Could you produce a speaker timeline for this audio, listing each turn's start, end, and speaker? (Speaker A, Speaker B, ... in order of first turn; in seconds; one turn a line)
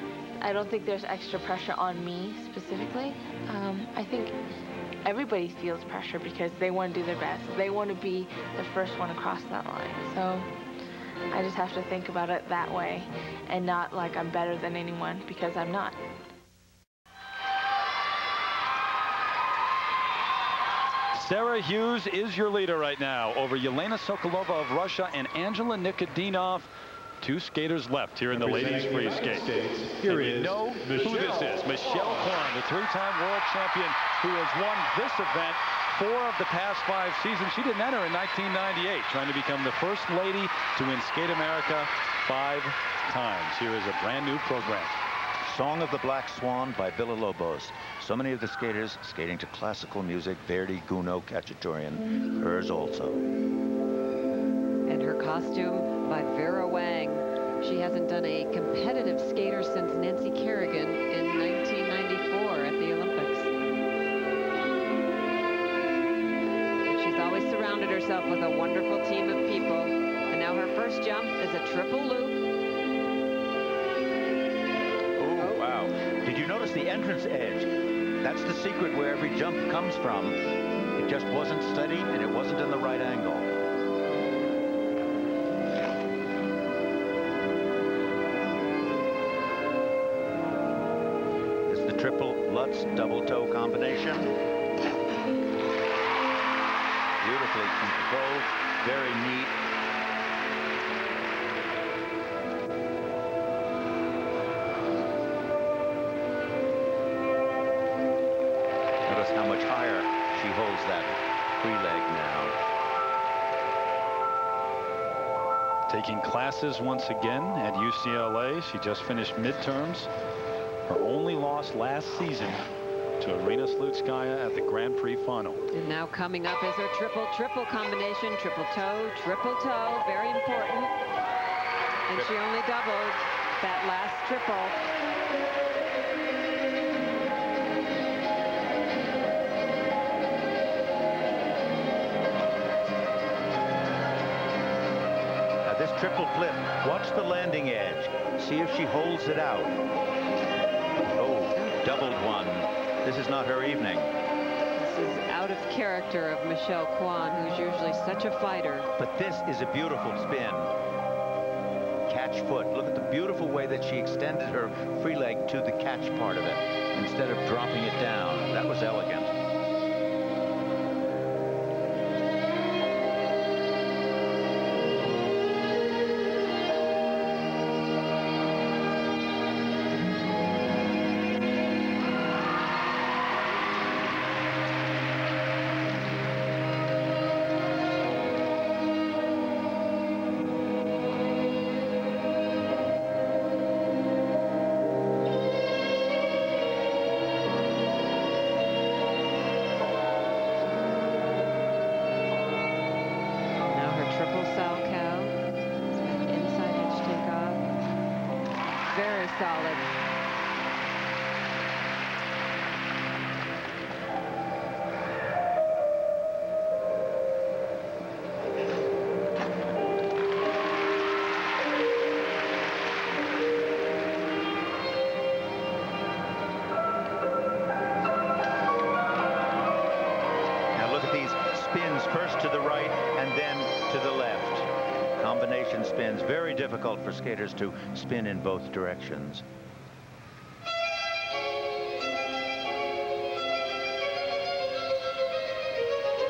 Speaker A: 0.4-4.4
Speaker A: 5.0-10.5
Speaker A: 11.3-16.0
Speaker B: 21.1-26.7
Speaker B: 27.2-45.0
Speaker C: 30.1-31.4
Speaker C: 45.4-53.2
Speaker D: 54.9-63.5
Speaker D: 66.9-72.4
Speaker C: 75.2-77.7
Speaker C: 78.2-80.4
Speaker C: 81.0-83.5
Speaker C: 91.7-94.3
Speaker C: 97.2-99.5
Speaker C: 109.1-112.6
Speaker B: 115.9-120.1
Speaker B: 120.9-122.6
Speaker B: 123.2-125.6
Speaker D: 125.7-131.0
Speaker D: 132.1-134.8
Speaker C: 145.6-149.8
Speaker C: 151.2-154.1
Speaker D: 154.8-158.9
Speaker C: 159.0-160.7
Speaker C: 162.1-169.3
Speaker D: 203.7-205.4
Speaker D: 205.9-207.7
Speaker D: 208.8-209.9
Speaker C: 230.7-239.4